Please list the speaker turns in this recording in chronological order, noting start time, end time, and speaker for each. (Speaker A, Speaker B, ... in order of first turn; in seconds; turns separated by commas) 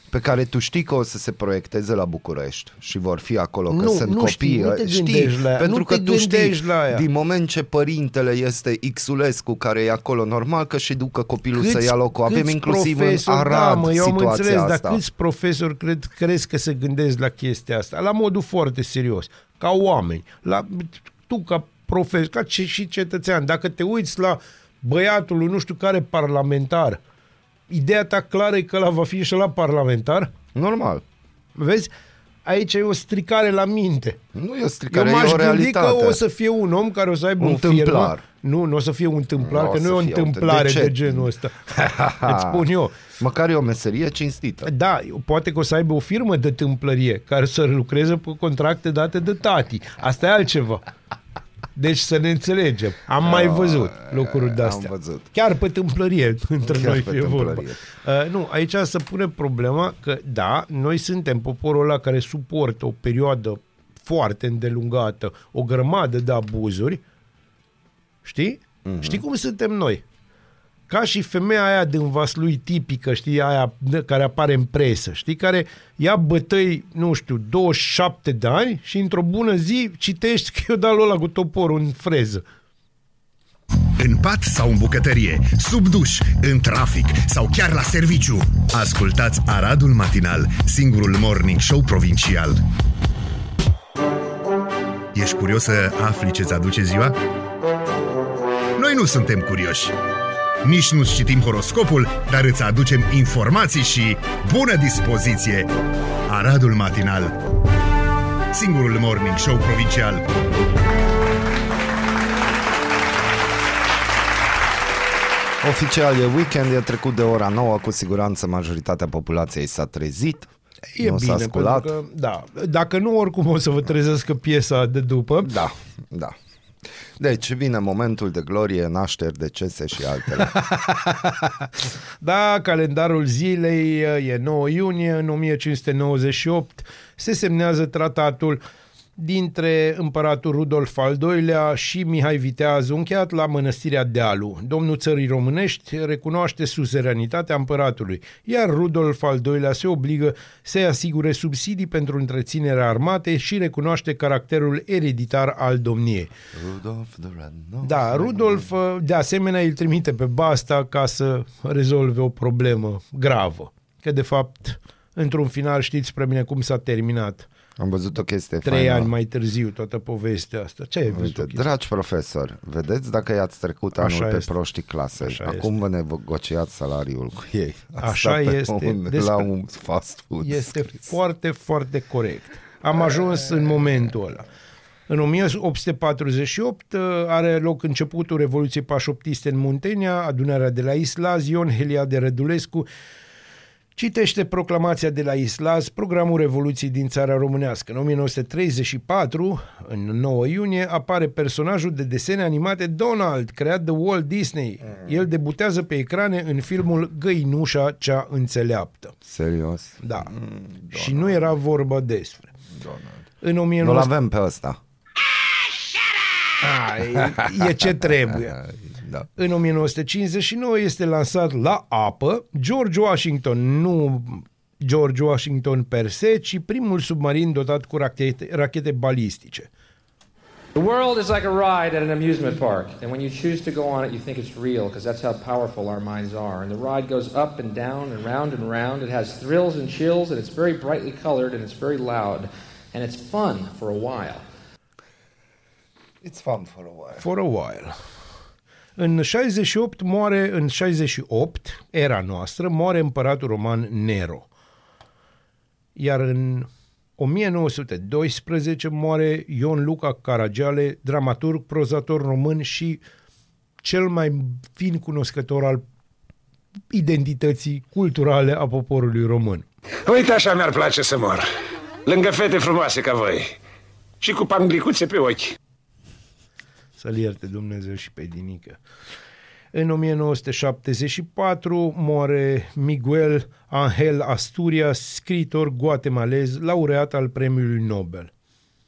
Speaker A: 0.1-15.0, Speaker B: 3.7-7.0, Speaker B: 11.5-27.0, Speaker B: 27.7-30.3, Speaker A: 30.5-31.0, Speaker B: 31.6-31.9, Speaker B: 32.5-34.2, Speaker A: 34.3-36.2, Speaker B: 34.9-43.0, Speaker A: 37.4-38.2, Speaker A: 39.4-44.7, Speaker B: 44.6-50.8, Speaker B: 51.8-67.0, Speaker A: 53.2-55.3, Speaker A: 56.6-57.8, Speaker B: 68.2-70.0, Speaker A: 68.8-69.2, Speaker B: 70.9-82.4, Speaker C: 84.0-92.6, Speaker C: 95.1-97.2, Speaker C: 98.8-100.0, Speaker C: 100.6-105.7, Speaker C: 106.3-107.4, Speaker C: 108.5-110.3, Speaker A: 115.6-121.9, Speaker B: 121.0-125.6, Speaker A: 125.4-126.4, Speaker A: 126.9-130.6, Speaker B: 130.3-138.6, Speaker B: 139.2-156.3, Speaker A: 156.5-158.7, Speaker B: 157.8-167.5, Speaker A: 167.8-169.1, Speaker B: 168.6-171.7, Speaker A: 171.1-181.1, Speaker B: 173.9-174.5, Speaker B: 175.2-175.8, Speaker B: 178.0-179.5, Speaker B: 180.4-184.5, Speaker B: 185.1-192.9, Speaker B: 194.0-209.2, Speaker A: 209.2-211.4, Speaker B: 210.0-210.3, Speaker B: 210.9-212.5, Speaker A: 212.8-213.2, Speaker B: 213.4-214.1, Speaker A: 213.8-214.8, Speaker B: 216.6-218.6, Speaker A: 217.3-217.6, Speaker A: 218.5-219.3, Speaker B: 219.4-229.7, Speaker D: 230.8-244.4, Speaker A: 246.2-247.2, Speaker B: 247.2-248.0, Speaker B: 249.0-254.5, Speaker B: 256.0-263.0, Speaker B: 263.8-265.8, Speaker B: 266.9-269.7, Speaker E: 270.1-271.4, Speaker E: 272.1-273.6, Speaker E: 274.2-275.6, Speaker B: 277.0-278.8, Speaker B: 279.7-288.3